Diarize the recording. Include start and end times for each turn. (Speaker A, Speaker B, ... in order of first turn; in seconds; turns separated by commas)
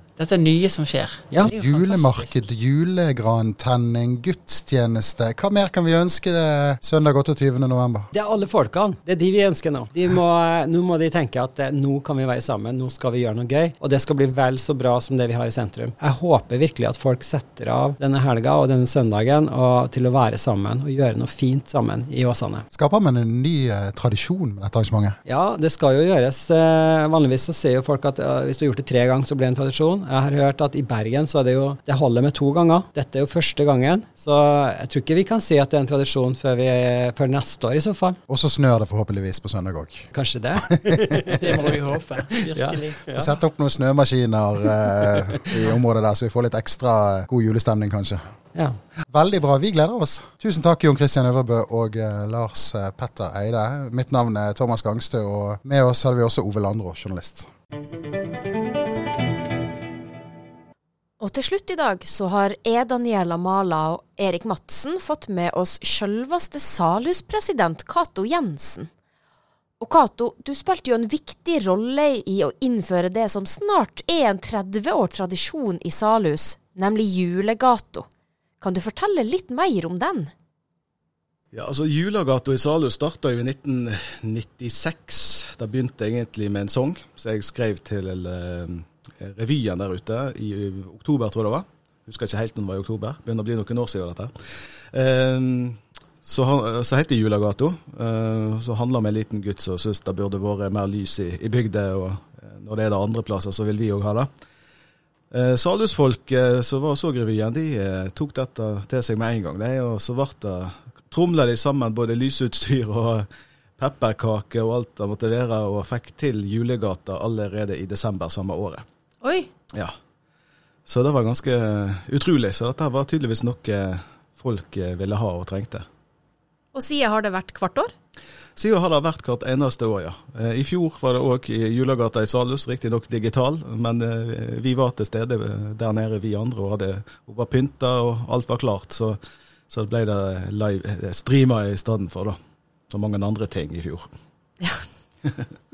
Speaker A: 0.1-2.5, Speaker B: 1.4-8.1, Speaker C: 8.1-22.7, Speaker B: 22.7-25.2, Speaker C: 25.2-38.2, Speaker B: 38.3-40.1, Speaker C: 40.1-41.7, Speaker A: 41.3-43.3, Speaker C: 42.4-43.2, Speaker B: 43.1-48.3, Speaker B: 49.1-57.5, Speaker D: 61.2-68.9, Speaker D: 69.8-78.1, Speaker D: 78.6-80.3, Speaker E: 81.5-104.3, Speaker E: 105.3-113.3, Speaker E: 113.8-118.8, Speaker D: 119.2-119.5, Speaker E: 120.9-125.8, Speaker D: 126.7-127.9, Speaker E: 128.6-139.2, Speaker E: 139.7-142.4, Speaker E: 142.9-144.1